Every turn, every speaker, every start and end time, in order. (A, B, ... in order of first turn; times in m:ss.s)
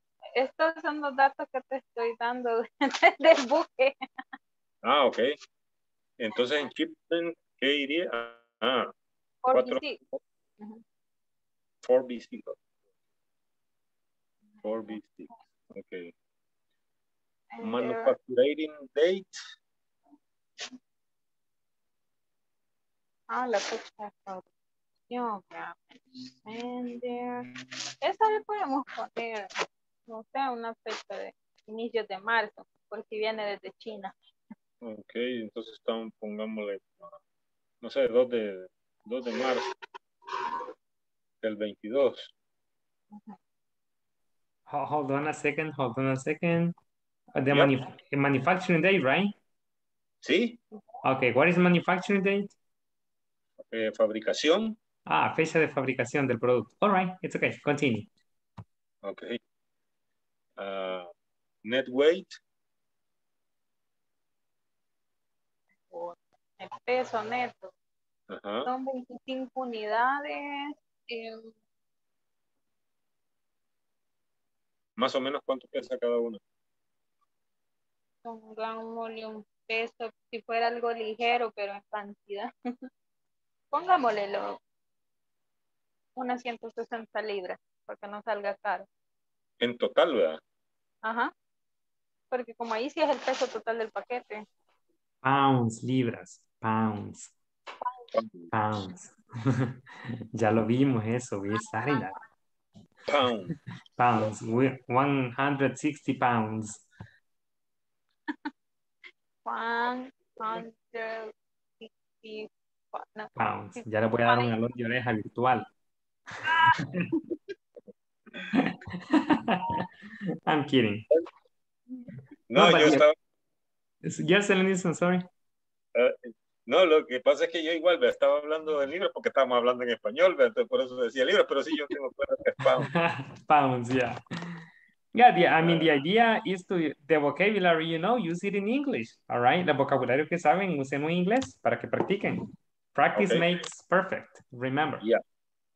0:00.4-0:03.9 A
0:04.8-0:05.4 B
0:06.2-0:08.9 B
0:09.4-0:10.0 A
0:09.5-0:09.8 B
0:11.8-0:12.6 B
0:14.6-0:16.1 B
0:17.5-0:18.1 A
0:17.6-0:19.3 B
0:23.3-0:24.4 A
0:25.1-0:27.4 A
0:28.0-0:29.5 A
0:30.1-0:34.1 A
0:34.8-0:37.1 B
0:37.8-0:39.7 B
0:41.4-0:42.3 B
0:44.7-0:46.7 C
0:47.3-0:49.3 C
0:50.2-0:50.6 B
0:51.0-0:52.5 C
0:53.6-0:54.8 B
0:55.0-0:58.1 C
0:59.0-0:59.4 B
1:00.6-1:01.1 B
1:01.6-1:02.4 B
1:05.9-1:07.7 A
1:08.3-1:08.7 B
1:08.6-1:11.5 A
1:15.0-1:16.4 B
1:18.2-1:22.5 A
1:23.7-1:24.6 A
1:26.2-1:28.9 A
1:29.6-1:30.4 B
1:31.0-1:31.3 A
1:32.3-1:34.4 A
1:35.2-1:37.3 C
1:38.2-1:38.5 B
1:38.5-1:42.2 C
1:43.1-1:43.5 B
1:44.0-1:46.8 C
1:49.4-1:54.5 A
1:53.4-1:55.6 C
1:58.5-1:59.8 C
2:00.4-2:01.0 C
2:02.5-2:03.1 B
2:02.5-2:03.0 C
2:04.0-2:05.2 C
2:06.0-2:12.9 B
2:12.8-2:14.6 C
2:15.1-2:22.4 C
2:15.6-2:15.9 B
2:22.9-2:25.0 C
2:23.2-2:23.6 B